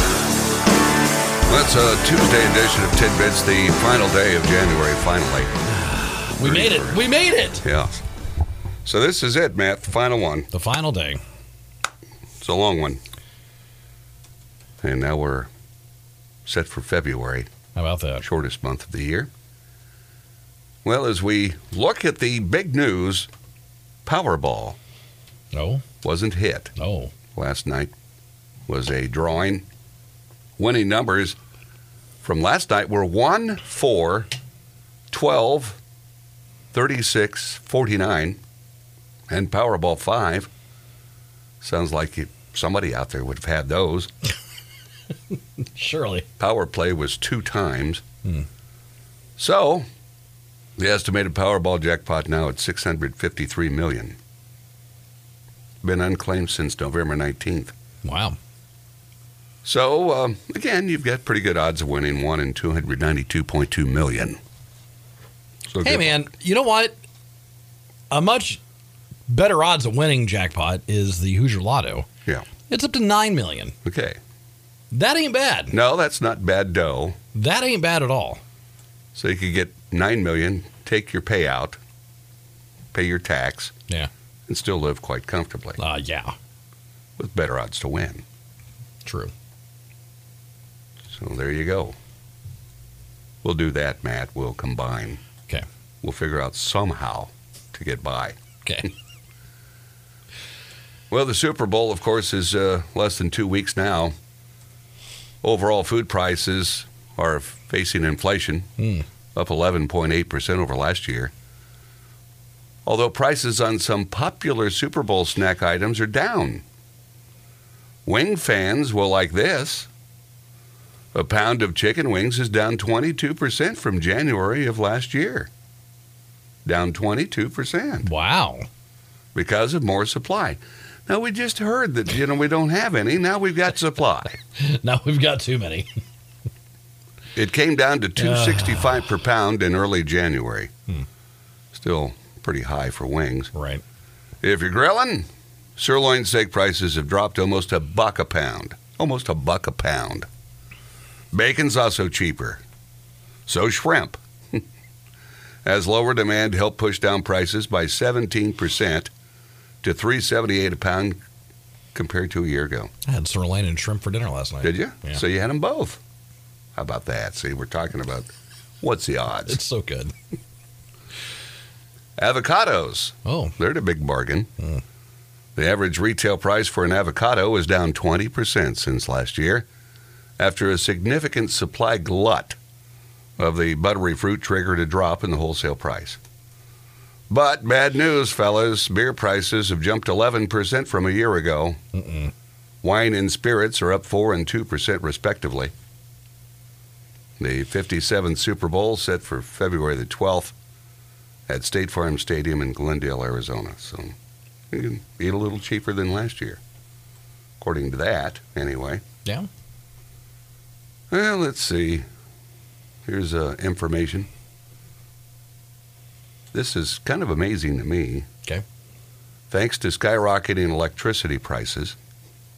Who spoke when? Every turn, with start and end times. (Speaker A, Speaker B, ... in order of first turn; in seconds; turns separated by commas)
Speaker A: 1.5-5.5, Speaker B: 5.7-7.7, Speaker A: 6.4-7.0, Speaker A: 7.6-8.0, Speaker A: 8.8-10.5, Speaker B: 10.5-11.2, Speaker A: 12.4-13.0, Speaker A: 14.8-15.5, Speaker A: 16.4-17.5, Speaker B: 17.7-18.2, Speaker A: 18.2-19.3, Speaker A: 20.8-23.3, Speaker A: 24.1-24.8, Speaker B: 25.5-25.8, Speaker A: 26.0-26.7, Speaker B: 26.8-27.1, Speaker A: 27.3-27.9, Speaker A: 28.7-29.7, Speaker A: 30.6-31.4, Speaker A: 32.2-34.3, Speaker A: 35.1-35.8, Speaker A: 36.7-38.4, Speaker A: 39.3-40.5, Speaker A: 41.6-44.1, Speaker B: 45.7-46.3, Speaker A: 46.4-48.0, Speaker A: 49.4-49.9, Speaker A: 50.8-54.2, Speaker A: 55.8-57.7, Speaker B: 58.0-58.4, Speaker A: 59.6-64.4, Speaker A: 65.7-66.2, Speaker B: 65.8-67.0, Speaker B: 68.1-68.6, Speaker B: 69.3-72.1, Speaker B: 72.7-73.8, Speaker A: 73.8-74.2, Speaker B: 74.9-75.8, Speaker A: 75.7-77.2, Speaker B: 77.3-78.4, Speaker A: 79.2-81.8, Speaker A: 82.9-83.7, Speaker A: 84.5-85.8, Speaker B: 85.8-86.3, Speaker A: 87.2-88.2, Speaker B: 89.0-89.3, Speaker A: 91.1-92.0, Speaker A: 93.4-95.2, Speaker A: 96.0-98.4, Speaker B: 98.7-98.9, Speaker A: 101.1-104.2, Speaker A: 105.4-108.7, Speaker B: 108.8-109.0, Speaker A: 109.3-111.3, Speaker A: 112.8-116.6, Speaker A: 118.0-119.9, Speaker A: 121.1-125.5, Speaker A: 126.7-128.1, Speaker B: 128.0-128.7, Speaker A: 129.3-134.4, Speaker B: 134.6-135.9, Speaker A: 137.3-140.7, Speaker B: 138.2-139.1, Speaker A: 141.7-143.5, Speaker B: 143.5-143.8, Speaker A: 144.4-150.3, Speaker A: 151.3-152.6, Speaker A: 153.5-154.6, Speaker A: 155.6-159.1, Speaker A: 159.8-161.2, Speaker A: 161.9-162.9, Speaker B: 163.1-165.2, Speaker A: 164.6-166.0, Speaker A: 166.8-168.3, Speaker A: 168.8-169.6, Speaker B: 169.5-170.1, Speaker A: 172.2-174.5, Speaker B: 173.2-173.6, Speaker A: 175.6-179.7, Speaker A: 180.4-182.6, Speaker A: 183.4-186.2, Speaker A: 187.3-191.8, Speaker B: 191.9-192.3, Speaker A: 192.8-195.7, Speaker A: 197.4-200.6, Speaker A: 201.5-204.2, Speaker A: 204.7-206.6, Speaker A: 207.6-209.0, Speaker A: 211.1-212.1, Speaker A: 213.1-214.3, Speaker A: 216.5-218.3, Speaker A: 219.5-222.0